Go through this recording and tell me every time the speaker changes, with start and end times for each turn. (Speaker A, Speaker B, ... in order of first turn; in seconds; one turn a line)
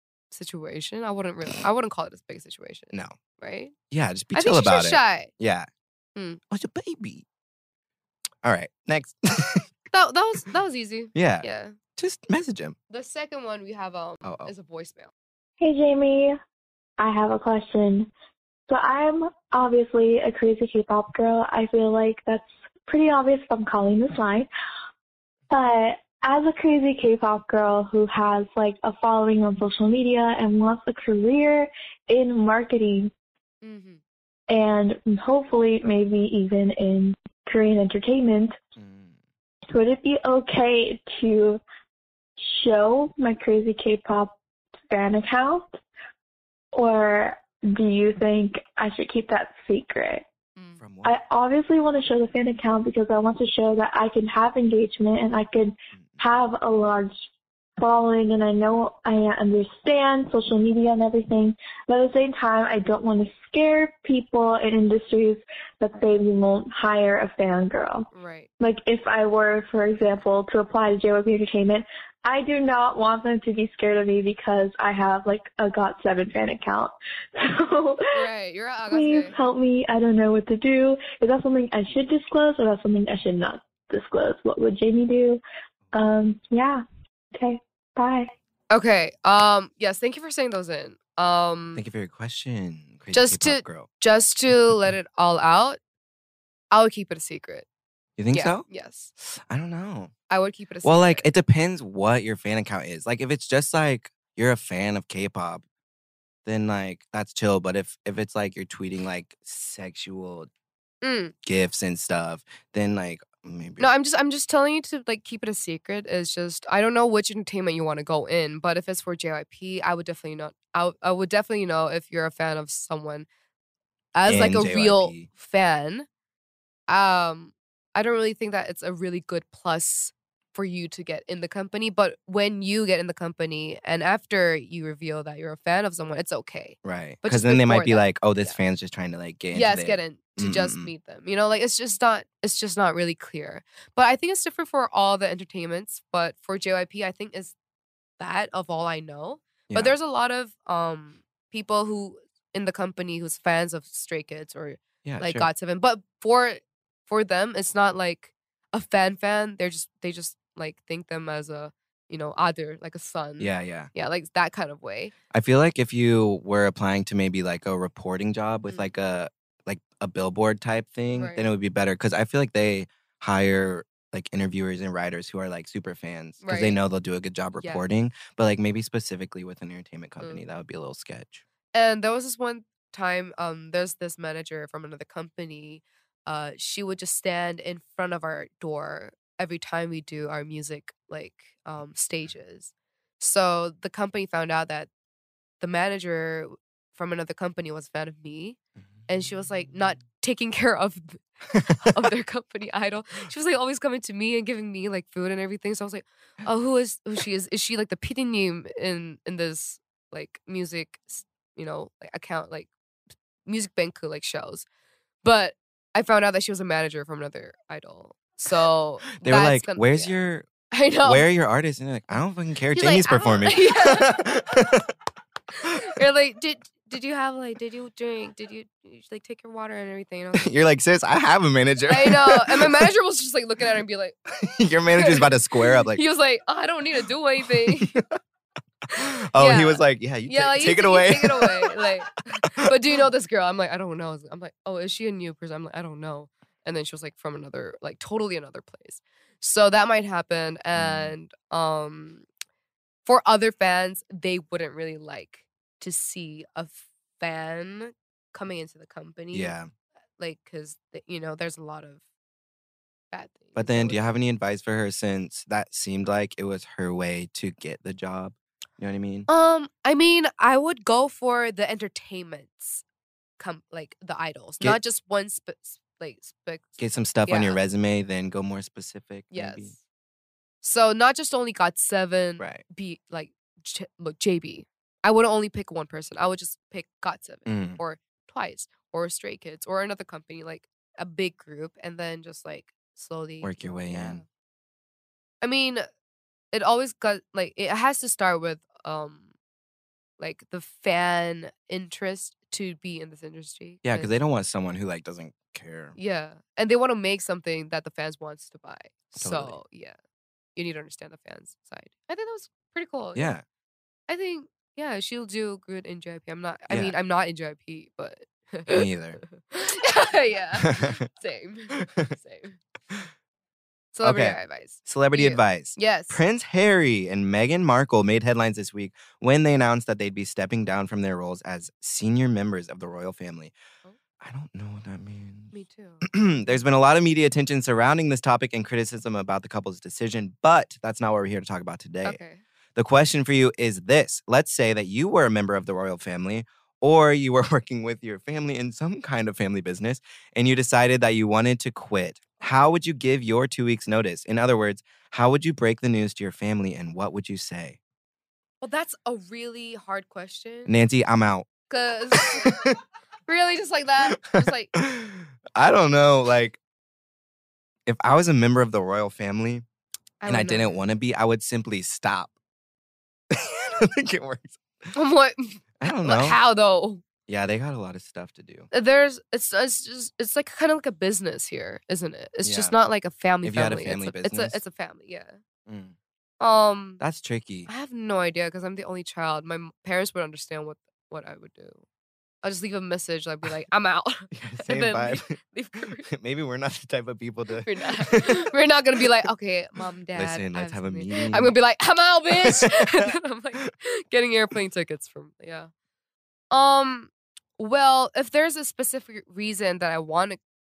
Speaker A: 0.3-3.7
Speaker B: 3.9-5.7
Speaker A: 4.3-5.3
Speaker B: 6.5-7.2
Speaker B: 8.4-9.7
Speaker A: 9.9-11.8
Speaker B: 11.2-12.8
Speaker A: 12.9-15.1
Speaker B: 14.2-14.5
Speaker C: 15.6-16.4
Speaker C: 17.0-18.1
Speaker C: 18.7-24.5
Speaker C: 25.5-33.1
Speaker A: 33.6-34.0
Speaker C: 34.5-38.6
Speaker B: 38.8-39.2
Speaker C: 39.7-41.6
Speaker C: 42.4-44.4
Speaker C: 44.9-45.8
Speaker C: 46.7-50.2
Speaker B: 50.8-51.2
Speaker C: 51.0-57.1
Speaker C: 57.8-68.1
Speaker A: 68.1-68.5
Speaker C: 68.6-78.2
Speaker A: 78.1-79.3
Speaker C: 78.9-86.8
Speaker C: 87.4-88.3
Speaker A: 88.7-91.8
Speaker B: 91.8-93.9
Speaker A: 93.1-95.8
Speaker A: 96.7-97.7
Speaker B: 98.2-98.7
Speaker A: 98.3-99.1
Speaker B: 99.2-100.1
Speaker A: 100.3-101.3
Speaker B: 100.8-105.6
Speaker B: 106.5-110.5
Speaker A: 111.0-111.3
Speaker B: 111.4-113.9
Speaker A: 113.8-123.3
Speaker A: 124.1-126.1
Speaker B: 124.3-125.3
Speaker A: 126.9-138.6
Speaker B: 136.8-140.9
Speaker A: 139.5-147.6
Speaker A: 148.2-165.1
Speaker B: 149.7-150.0
Speaker B: 155.0-155.5
Speaker B: 163.4-163.9
Speaker B: 165.3-181.4
Speaker A: 171.1-171.4
Speaker A: 176.4-176.8
Speaker A: 181.7-194.9
Speaker A: 195.6-198.6
Speaker A: 199.1-212.7
Speaker B: 201.5-201.9
Speaker A: 213.5-214.7
Speaker A: 215.2-220.2
Speaker B: 219.2-220.5
Speaker A: 220.7-221.2
Speaker B: 221.0-224.8
Speaker A: 222.7-224.5
Speaker A: 225.5-230.5
Speaker B: 230.4-232.8
Speaker A: 231.9-234.2
Speaker B: 234.3-236.0
Speaker A: 235.0-238.0
Speaker B: 237.7-238.1
Speaker A: 238.9-252.3
Speaker B: 238.9-241.9
Speaker B: 250.8-251.2
Speaker A: 253.1-259.6
Speaker B: 259.3-259.7
Speaker A: 260.2-262.0
Speaker A: 263.1-264.1
Speaker B: 263.6-269.3
Speaker A: 269.3-272.8
Speaker A: 273.4-277.6
Speaker B: 276.8-279.7
Speaker A: 279.3-279.8
Speaker A: 280.6-294.2
Speaker B: 287.5-287.8
Speaker B: 293.4-294.2
Speaker A: 295.4-295.9
Speaker A: 296.5-299.3
Speaker A: 300.2-304.1
Speaker B: 303.8-306.0
Speaker A: 306.0-310.0
Speaker B: 309.2-309.6
Speaker A: 310.6-313.3
Speaker B: 313.1-313.4
Speaker A: 314.1-322.6
Speaker B: 318.7-319.2
Speaker B: 320.6-321.0
Speaker B: 321.8-322.1
Speaker A: 323.9-326.2
Speaker B: 324.0-333.5
Speaker B: 334.2-342.2
Speaker A: 335.5-336.1
Speaker A: 342.1-342.4
Speaker B: 342.8-357.8
Speaker A: 358.6-360.7
Speaker B: 360.7-361.5
Speaker A: 361.7-362.7
Speaker B: 362.1-362.8
Speaker A: 363.3-364.7
Speaker B: 364.1-366.6
Speaker B: 367.9-369.6
Speaker A: 370.2-370.8
Speaker B: 370.3-372.3
Speaker B: 373.3-374.9
Speaker A: 374.9-377.0
Speaker B: 375.8-376.4
Speaker B: 377.3-378.7
Speaker A: 378.7-385.4
Speaker B: 382.4-382.7
Speaker B: 383.4-384.6
Speaker B: 385.7-385.9
Speaker A: 386.4-387.0
Speaker B: 387.0-387.7
Speaker A: 387.7-391.8
Speaker A: 392.4-396.1
Speaker B: 394.3-395.4
Speaker B: 396.0-398.5
Speaker A: 397.6-405.7
Speaker B: 400.1-401.5
Speaker B: 402.4-403.1
Speaker A: 406.5-410.4